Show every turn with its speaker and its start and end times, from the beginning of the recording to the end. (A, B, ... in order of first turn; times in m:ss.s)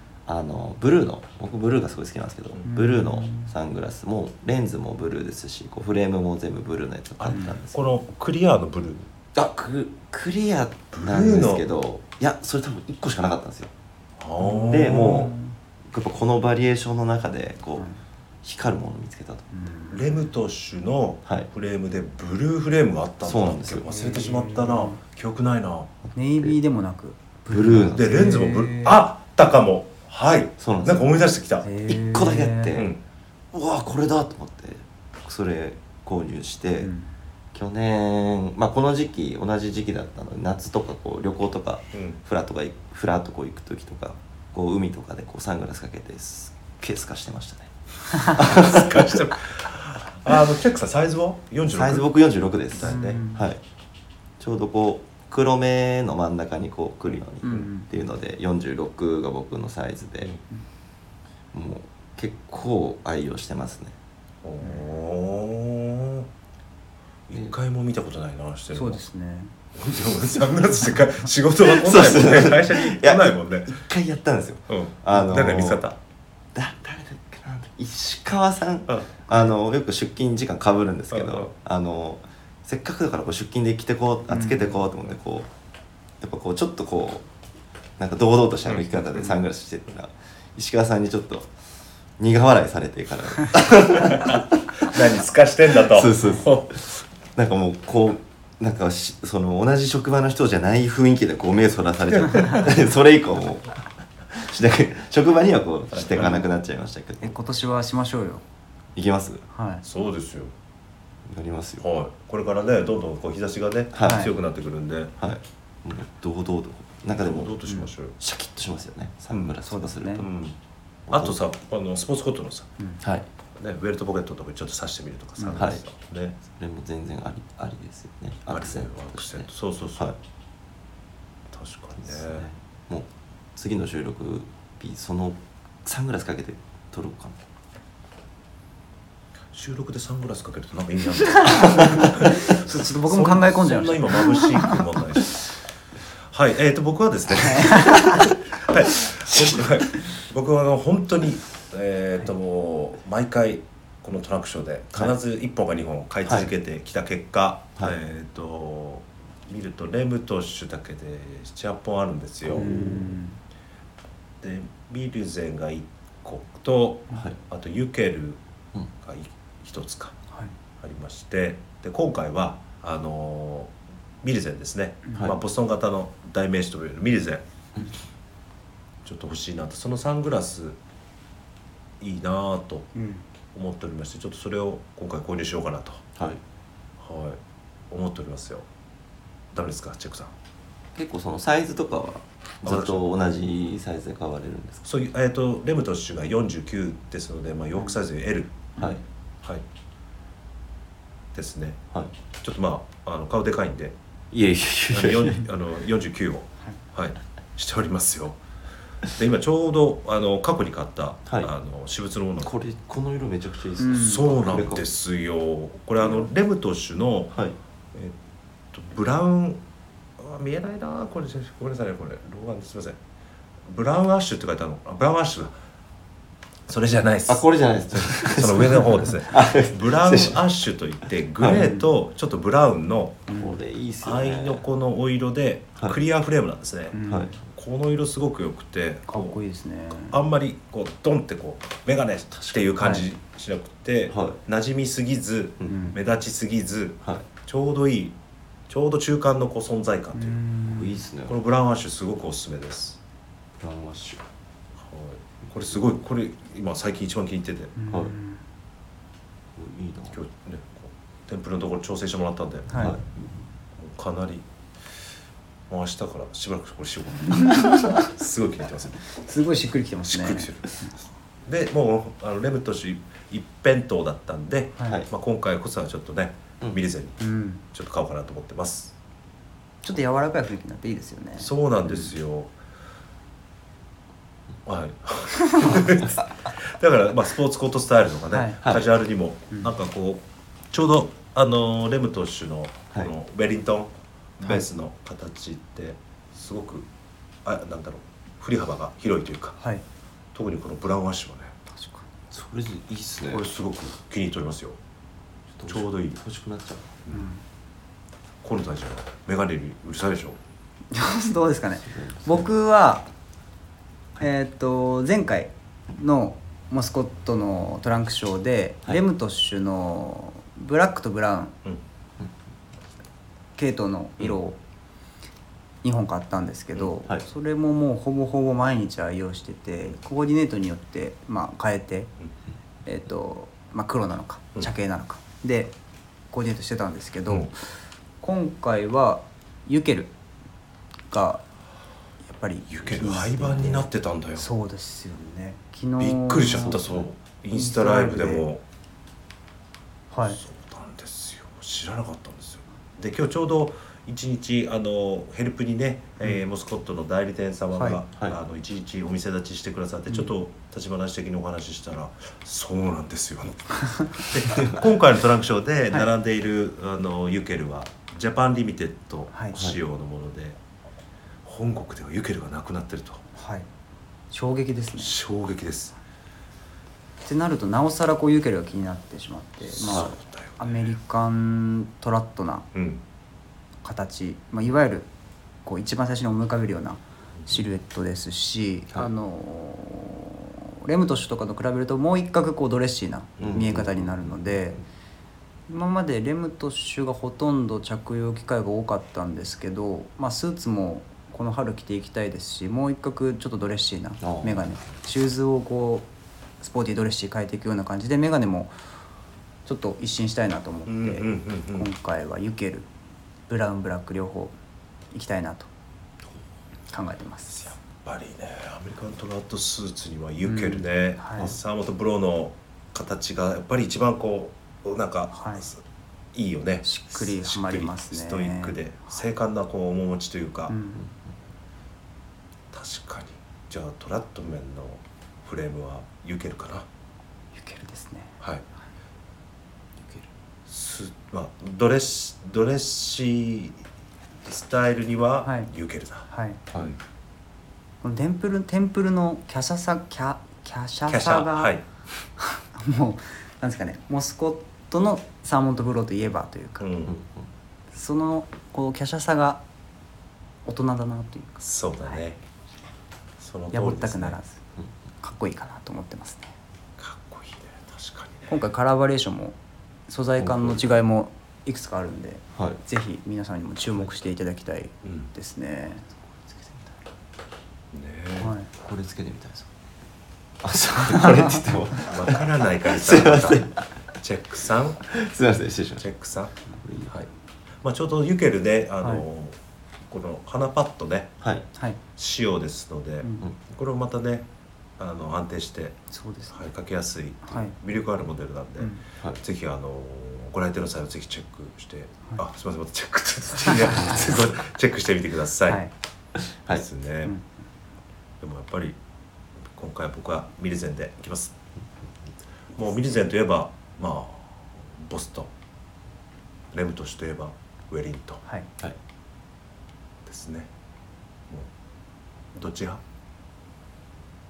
0:00.3-0:08.0 A
0:02.6-0:03.5 B
0:07.2-0:09.1 C
0:07.3-0:07.6 B
0:09.3-0:13.7 A
0:10.9-0:11.6 C
0:14.2-0:15.3 C
0:14.4-0:15.5 B
0:14.7-0:15.4 A
0:15.9-0:17.9 A
0:18.4-0:19.5 A
0:19.5-0:20.0 B
0:19.9-0:25.9 C
0:23.2-0:23.9 A
0:23.9-0:25.0 B
0:26.1-0:29.0 B
0:27.5-0:28.3 A
0:27.9-0:31.7 C
0:30.6-0:31.1 A
0:31.6-0:32.8 B
0:31.9-0:32.9 A
0:32.7-0:33.0 C
0:33.5-0:36.9 A
0:36.8-0:37.1 B
0:37.5-0:49.2 A
0:48.4-0:52.1 C
0:51.6-0:53.6 A
0:52.8-0:53.1 C
0:52.8-0:53.4 B
0:54.4-1:00.3 A
0:57.4-0:57.9 B
1:01.5-1:04.0 A
1:04.4-1:06.3 C
1:07.3-1:09.0 C
1:08.7-1:09.5 B
1:09.8-1:13.8 C
1:11.6-1:15.8 A
1:14.7-1:16.0 C
1:16.5-1:25.5 A
1:21.1-1:21.5 C
1:24.3-1:24.8 B
1:26.2-1:27.3 A
1:28.0-1:31.5 A
1:28.7-1:29.0 C
1:32.2-1:35.0 A
1:34.0-1:36.8 C
1:35.7-1:47.4 A
1:42.1-1:42.7 C
1:45.9-1:46.4 C
1:47.2-1:48.4 B
1:48.9-1:49.4 A
1:49.5-1:49.8 B
1:49.8-1:50.5 C
1:51.3-1:51.8 A
1:51.8-1:55.2 C
1:53.9-1:54.3 A
1:54.0-1:54.3 B
1:55.2-1:57.6 A
1:57.1-1:58.2 C
1:58.2-2:00.3 A
1:59.6-2:00.3 B
2:00.2-2:00.6 C
2:01.1-2:01.4 A
2:01.1-2:02.7 C
2:03.0-2:03.3 A
2:03.6-2:06.4 C
2:05.4-2:05.8 B
2:05.6-2:05.8 A
2:06.4-2:10.2 A
2:08.5-2:10.1 C
2:11.5-2:12.4 C
2:12.0-2:17.4 A
2:19.5-2:25.4 C
2:21.4-2:24.8 B
2:26.3-2:42.8 C
2:27.4-2:28.3 B
2:29.3-2:29.6 A
2:36.2-2:36.5 A
2:42.4-2:43.2 A
2:42.5-2:43.4 B
2:44.4-2:48.4 C
2:49.0-2:50.2 C
2:50.8-2:57.4 C
2:59.0-3:00.8 C
3:02.0-3:02.9 C
3:02.9-3:03.2 B
3:03.5-3:06.0 C
3:06.2-3:06.4 A
3:07.0-3:07.4 C
3:07.9-3:08.6 C
3:09.5-3:10.3 C
3:10.9-3:14.8 A
3:12.6-3:13.1 C
3:14.8-3:18.8 C
3:21.4-3:21.8 C
3:22.4-3:24.0 C
3:24.3-3:25.5 A
3:24.9-3:28.4 C
3:29.1-3:32.5 C
3:31.3-3:31.5 A
3:32.4-3:34.8 A
3:33.8-3:34.2 B
3:33.9-3:37.4 C
3:38.7-3:39.6 C
3:40.2-3:43.0 C
3:43.7-3:45.6 C
3:46.7-3:53.2 C
3:47.3-3:50.4 A
3:51.4-3:51.7 A
3:51.4-3:51.9 B
3:53.3-3:53.6 B
3:53.4-3:54.7 A
3:54.0-3:59.4 C
3:56.9-3:57.4 B
3:57.1-3:57.3 A
3:59.1-4:00.2 B
3:59.9-4:08.2 C
4:02.3-4:02.7 A
4:02.8-4:03.1 B
4:04.1-4:04.4 A
4:05.7-4:06.0 B
4:08.7-4:10.4 C
4:10.1-4:11.0 B
4:10.6-4:11.4 A
4:11.3-4:13.0 C
4:13.6-4:14.2 A
4:14.8-4:17.7 C
4:17.8-4:18.4 B
4:19.6-4:20.2 A
4:20.1-4:23.0 C
4:22.7-4:23.0 B
4:22.8-4:23.0 A
4:23.8-4:24.4 C
4:25.7-4:29.1 C
4:27.3-4:28.1 B
4:29.1-4:30.9 B
4:30.1-4:30.9 C
4:31.4-4:37.2 C
4:37.2-4:37.6 B
4:37.7-4:38.9 C
4:39.8-4:42.1 B
4:41.4-4:42.5 C
4:44.6-4:56.9 C
4:48.3-4:48.6 B
4:48.6-4:48.9 A
4:57.4-4:59.6 C
5:00.3-5:01.6 C
5:01.7-5:02.0 B
5:02.3-5:03.5 A
5:03.3-5:04.8 C
5:05.5-5:06.9 A
5:05.7-5:06.2 C
5:07.1-5:07.4 B
5:08.4-5:10.4 C
5:10.9-5:13.1 B
5:11.9-5:12.5 A
5:14.2-5:21.6 B
5:23.6-5:24.6 B
5:25.8-5:32.1 B
5:32.8-5:35.7 B
5:36.3-5:37.7 B
5:38.2-5:40.1 B
5:41.1-5:41.4 B
5:42.2-5:48.4 B
5:42.7-5:44.5 C
5:46.0-5:48.6 C
5:50.1-5:50.4 B
5:50.3-6:10.6 C
5:57.7-5:58.0 B
6:04.5-6:04.8 A
6:09.3-6:09.6 B
6:11.4-6:13.2 C
6:13.4-6:13.7 B
6:14.3-6:15.1 B
6:15.0-6:15.9 C
6:17.2-6:22.7 B
6:19.7-6:20.8 C
6:22.7-6:23.0 C
6:23.8-6:25.1 B
6:25.6-6:34.8 B
6:33.4-6:34.5 A
6:35.7-6:46.1 B
6:44.2-6:44.8 A
6:46.6-6:48.7 B
6:49.6-6:52.9 B
6:50.9-6:51.9 C
6:53.5-6:54.6 B
6:55.1-6:55.7 B
6:56.9-6:57.6 B
6:57.5-7:05.8 C
7:00.4-7:01.5 B
7:05.3-7:05.7 B
7:06.3-7:10.7 C
7:06.8-7:09.1 B
7:10.7-7:11.0 B
7:12.7-7:16.9 C
7:17.6-7:18.4 B
7:20.0-7:20.3 A
7:20.7-7:23.8 C
7:24.4-7:26.9 C
7:25.4-7:25.7 B
7:26.3-7:26.6 B
7:28.0-7:31.7 B
7:31.1-7:31.8 C
7:32.4-7:36.9 B
7:36.8-7:37.2 C
7:37.1-7:37.4 A
7:37.9-7:39.6 B
7:40.6-7:42.2 B
7:41.6-7:42.4 C
7:43.4-7:44.4 C
7:43.7-7:44.6 B
7:45.2-7:46.5 B
7:47.0-7:48.6 C
7:48.5-7:49.6 B
7:50.1-7:56.1 B
7:50.4-7:50.8 A
7:52.6-7:52.8 A
7:55.0-7:55.3 C
7:56.4-7:56.9 A
7:57.9-7:58.5 C
7:58.4-7:58.7 B
7:58.8-7:59.7 A
8:00.6-8:03.9 A
8:01.2-8:01.5 B
8:02.0-8:05.1 C
8:05.1-8:06.1 A
8:06.0-8:06.6 C
8:06.8-8:07.1 A
8:07.8-8:09.6 C
8:10.1-8:11.4 C
8:12.2-8:14.5 C
8:15.0-8:25.8 C
8:16.1-8:16.6 B
8:17.4-8:17.7 B
8:23.9-8:24.2 B
8:26.4-8:26.8 A
8:26.7-8:27.3 C
8:28.4-8:29.0 C
8:29.7-8:31.6 C
8:32.8-8:35.5 C
8:36.7-8:38.4 C
8:40.3-8:40.7 C
8:42.6-8:43.0 C